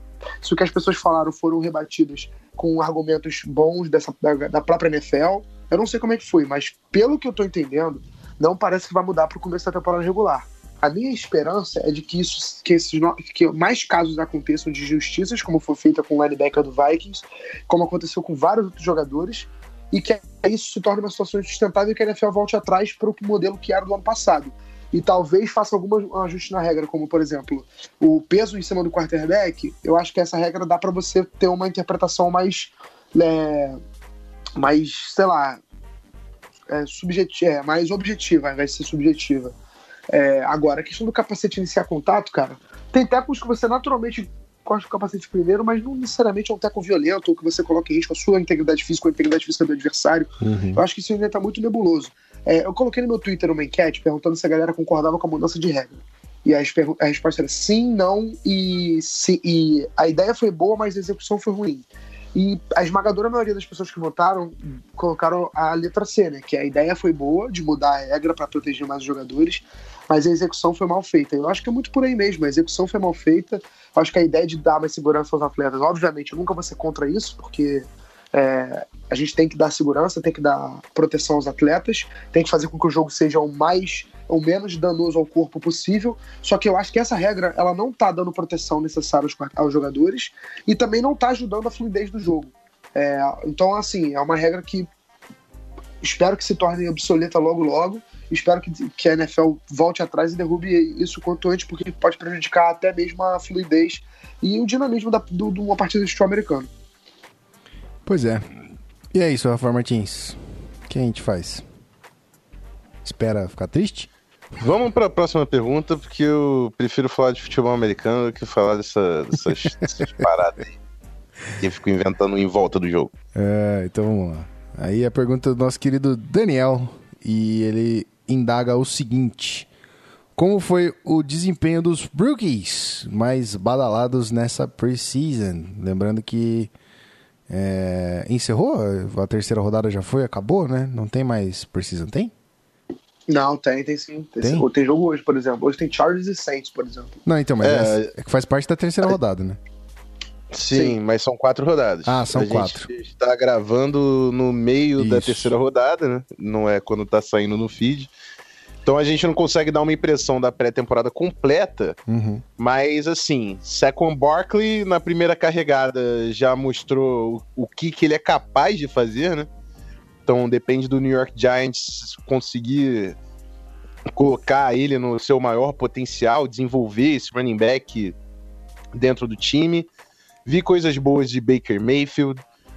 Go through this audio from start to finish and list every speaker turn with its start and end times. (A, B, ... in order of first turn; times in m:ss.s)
0:00.4-0:33.8 A
0:34.6-0:35.6 A
0:36.7-0:39.6 A
0:40.1-1:34.9 A
0:50.4-0:50.8 B
1:36.0-1:46.7 A
1:48.1-1:48.5 B
1:49.1-1:51.6 B
1:53.0-1:54.1 B
1:54.6-2:00.8 C
2:01.6-2:03.1 C
2:03.4-2:09.7 B
2:10.4-2:16.7 B
2:17.5-2:22.3 B
2:23.3-2:27.2 A
2:24.4-2:24.7 B
2:27.2-2:29.6 B
2:27.6-2:28.1 C
2:30.5-2:38.1 C
2:30.7-2:31.0 A
2:32.1-2:32.9 B
2:35.0-2:35.5 B
2:38.8-2:42.0 C
2:42.1-2:42.4 B
2:42.6-2:49.5 C
2:50.3-2:53.2 C
2:54.1-2:58.1 C
2:58.9-2:59.9 C
3:00.5-3:02.4 C